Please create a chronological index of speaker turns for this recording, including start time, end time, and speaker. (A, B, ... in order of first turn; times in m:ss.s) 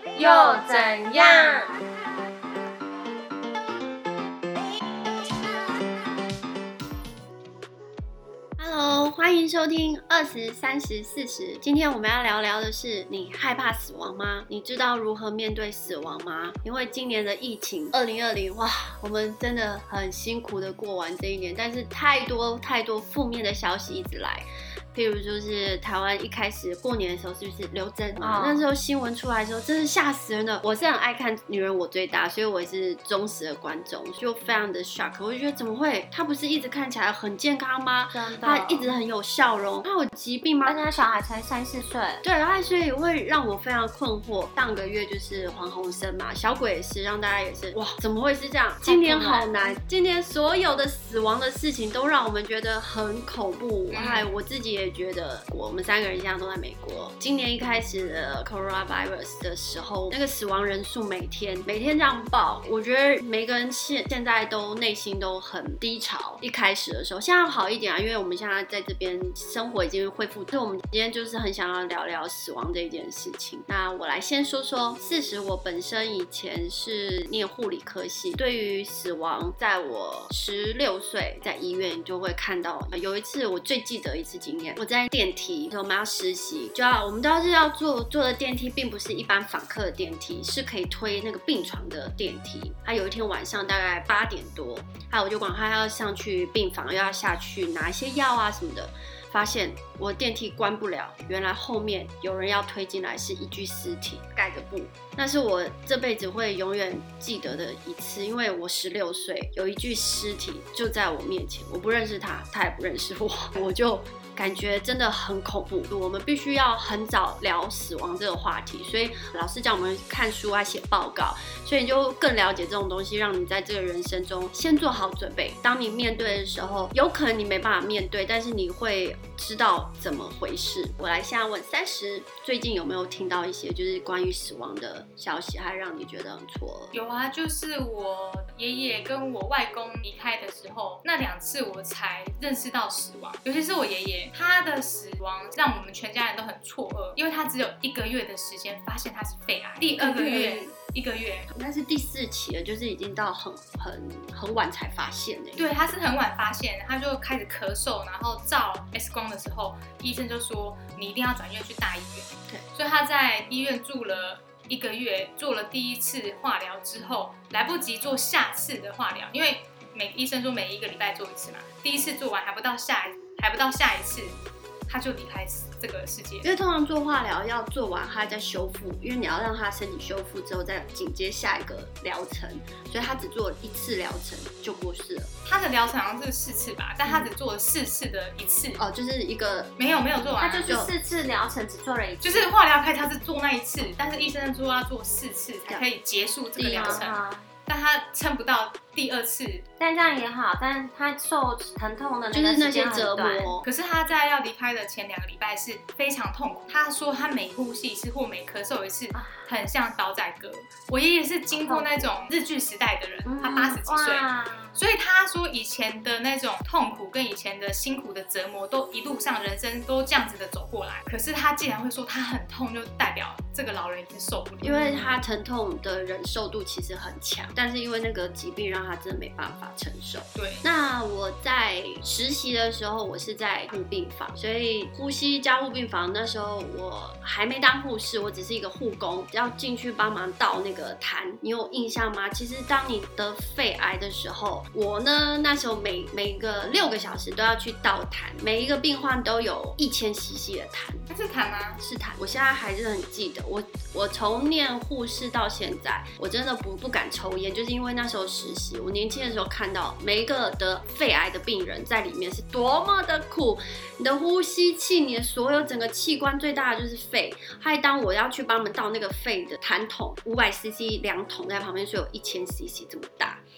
0:00.1-0:01.7 A
0:08.6-0:40.8 B
0:28.2-0:28.7 A
0:38.1-0:38.9 A
0:40.6-0:42.2 A
0:42.2-2:16.9 B
0:48.8-0:49.8 A
0:53.9-0:54.3 C
2:16.9-2:31.5 C
2:29.9-2:30.7 B
2:31.5-2:35.7 B
2:35.6-2:54.4 C
2:54.9-2:56.5 C
2:56.4-3:05.3 B
3:05.5-3:08.8 C
3:07.0-3:07.3 B
3:08.8-3:09.7 B
3:09.8-3:10.8 C
3:10.4-3:12.5 A
3:10.7-3:11.1 B
3:12.2-3:19.6 C
3:16.6-3:17.1 B
3:16.7-3:17.5 A
3:19.8-3:23.5 A
3:22.3-3:23.7 B
3:23.6-3:44.9 C
3:29.1-3:29.5 A
3:31.5-3:32.1 A
3:33.2-3:34.8 A
3:44.6-4:11.1 B
3:44.6-3:45.2 A
3:50.4-3:50.6 C
4:11.1-4:11.8 C
4:11.8-4:33.4 B